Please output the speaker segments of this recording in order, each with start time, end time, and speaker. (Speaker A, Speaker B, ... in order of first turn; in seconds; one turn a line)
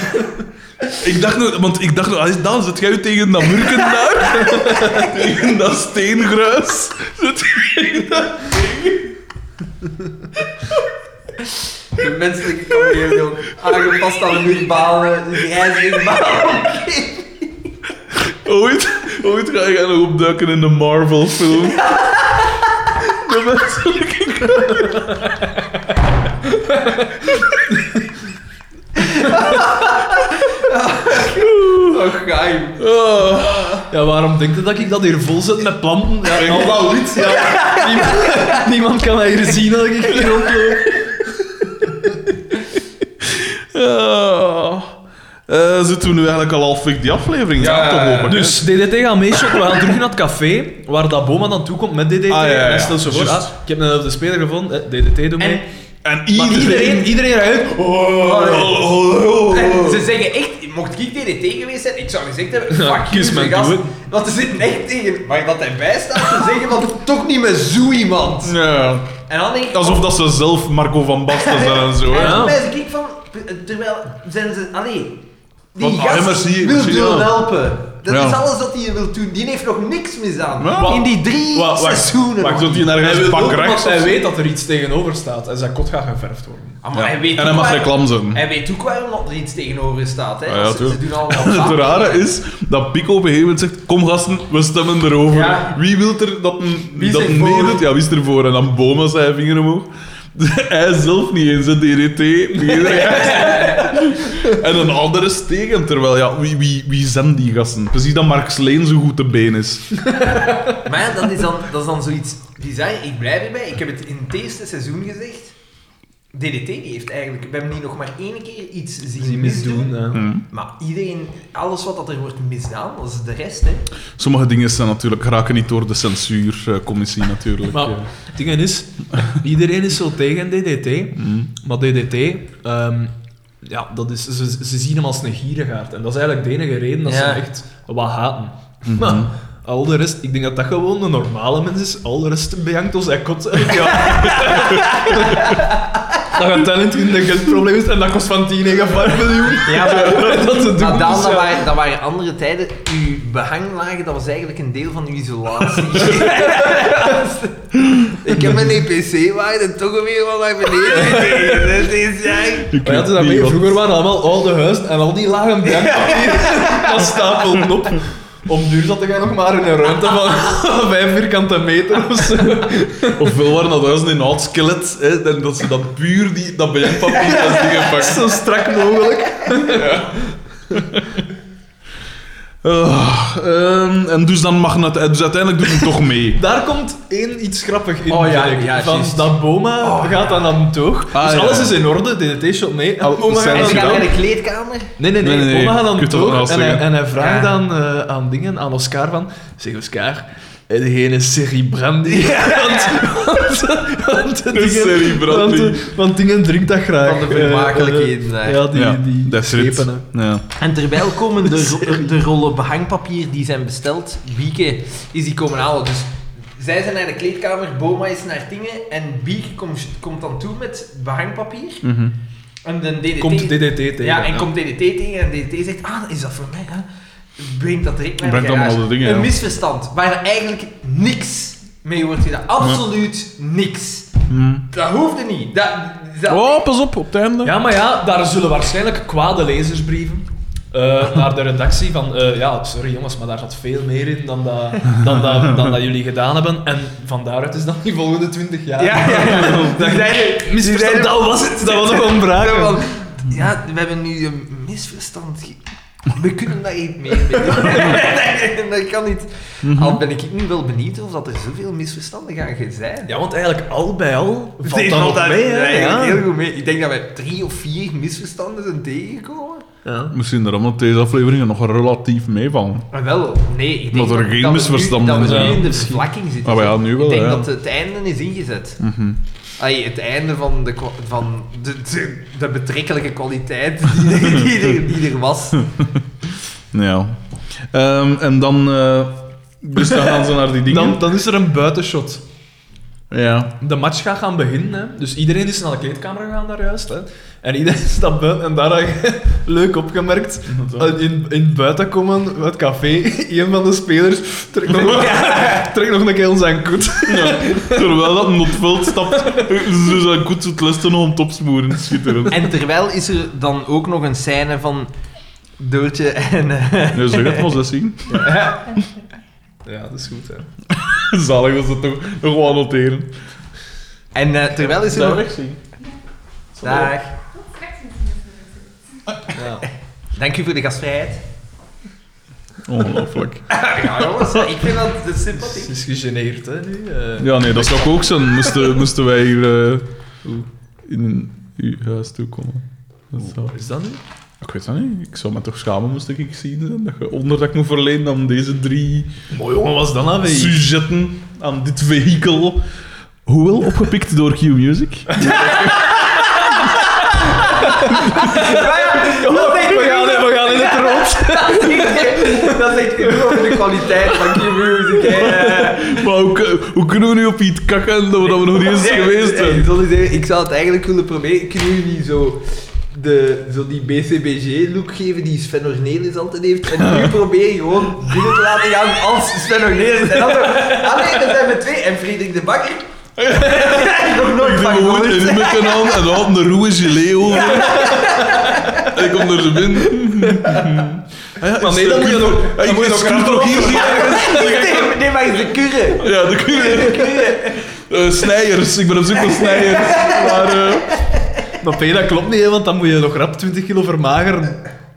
Speaker A: 1.0-7.8
Speaker B: 4.4-5.1
Speaker B: 7.4-8.8
Speaker C: 11.9-17.5
Speaker A: 18.1-22.1
Speaker C: 21.8-22.6
Speaker A: 23.1-25.3
Speaker B: 24.8-25.2
Speaker B: 26.5-28.0
Speaker C: 28.9-33.8
Speaker A: 32.8-33.8
Speaker B: 33.9-42.1
Speaker C: 36.3-38.7
Speaker C: 40.2-40.5
Speaker A: 43.2-44.9
Speaker A: 45.5-48.7
Speaker C: 47.6-48.4
Speaker B: 48.2-55.6
Speaker A: 52.3-53.5
Speaker C: 55.4-55.6
Speaker A: 56.0-57.1
Speaker B: 56.3-58.8
Speaker A: 58.1-60.0
Speaker C: 58.2-59.0
Speaker C: 59.5-68.5
Speaker B: 62.7-63.9
Speaker A: 68.4-69.1
Speaker C: 69.3-70.0
Speaker A: 69.7-72.5
Speaker C: 71.3-75.2
Speaker B: 72.1-72.6
Speaker C: 75.7-82.8
Speaker A: 75.8-77.4
Speaker A: 78.1-78.4
Speaker A: 80.6-81.0
Speaker B: 80.7-86.8
Speaker A: 82.5-84.2
Speaker C: 86.8-92.2
Speaker A: 86.9-88.4
Speaker A: 90.5-110.0
Speaker C: 95.3-95.8
Speaker C: 96.9-97.8
Speaker C: 102.7-104.1
Speaker B: 110.1-110.7
Speaker C: 110.8-115.5
Speaker C: 116.3-123.9
Speaker B: 119.2-120.3
Speaker A: 120.1-120.4
Speaker A: 124.2-128.1
Speaker B: 127.7-145.7
Speaker A: 131.2-131.5
Speaker C: 137.1-137.4
Speaker A: 138.9-139.3
Speaker C: 143.9-146.0
Speaker B: 146.2-151.6
Speaker C: 149.6-162.7
Speaker B: 156.2-156.6
Speaker B: 160.8-161.9
Speaker A: 162.7-163.8
Speaker B: 162.8-173.4
Speaker C: 165.7-167.5
Speaker A: 173.1-178.3
Speaker C: 177.1-178.2
Speaker B: 177.9-179.9
Speaker A: 179.7-181.2
Speaker A: 182.6-186.4
Speaker B: 186.4-194.1
Speaker C: 188.1-190.6
Speaker A: 191.1-191.8
Speaker A: 193.0-194.1
Speaker C: 193.5-194.9
Speaker B: 195.0-210.1
Speaker A: 195.2-196.9
Speaker C: 197.1-197.6
Speaker C: 202.1-203.1
Speaker A: 204.5-205.9
Speaker C: 207.0-208.6
Speaker A: 208.7-210.4
Speaker C: 210.6-221.8
Speaker B: 211.4-212.0
Speaker A: 221.8-222.1
Speaker C: 222.6-226.8
Speaker B: 223.2-224.5
Speaker C: 227.4-234.1
Speaker A: 228.2-229.3
Speaker A: 234.3-234.7
Speaker C: 234.7-236.7
Speaker A: 236.3-237.6
Speaker B: 237.4-252.9
Speaker A: 244.9-245.8
Speaker C: 248.8-263.1
Speaker A: 249.2-249.9
Speaker B: 257.6-257.9
Speaker A: 259.6-260.0
Speaker B: 263.1-266.3
Speaker C: 264.6-269.6
Speaker B: 269.8-270.1
Speaker A: 270.1-272.9
Speaker C: 272.9-278.8
Speaker A: 273.9-275.7
Speaker B: 275.2-276.0
Speaker A: 276.4-277.5
Speaker A: 278.8-279.2
Speaker C: 279.6-285.7
Speaker A: 284.1-284.5
Speaker A: 285.6-291.0
Speaker B: 289.8-292.2
Speaker A: 293.1-293.5
Speaker B: 293.6-308.3
Speaker A: 300.5-301.0
Speaker C: 304.7-305.7
Speaker A: 307.1-312.5
Speaker B: 309.0-309.5
Speaker C: 312.3-314.9
Speaker C: 315.6-317.5
Speaker A: 316.9-318.4
Speaker C: 318.1-318.8
Speaker B: 319.6-320.5
Speaker A: 320.7-323.1
Speaker C: 324.1-325.3
Speaker A: 324.7-325.6
Speaker C: 326.6-327.1
Speaker B: 329.3-329.7
Speaker C: 330.1-331.2
Speaker A: 332.6-334.6
Speaker C: 333.5-335.7
Speaker B: 335.4-338.7
Speaker A: 337.2-339.9
Speaker A: 340.9-343.5
Speaker B: 343.2-344.0
Speaker A: 344.4-349.1
Speaker B: 349.3-350.6
Speaker A: 350.2-352.6
Speaker A: 353.3-355.9
Speaker B: 355.1-355.5
Speaker C: 355.2-366.0
Speaker B: 357.4-365.6
Speaker A: 365.6-369.7
Speaker C: 368.3-386.1
Speaker A: 376.8-377.1
Speaker B: 380.4-380.7
Speaker A: 383.2-388.1
Speaker C: 387.3-388.9
Speaker B: 387.4-388.9
Speaker A: 388.8-394.9
Speaker B: 389.7-390.9
Speaker B: 391.6-394.8
Speaker C: 393.6-397.6
Speaker A: 395.9-401.0
Speaker C: 399.3-401.2
Speaker B: 401.6-404.6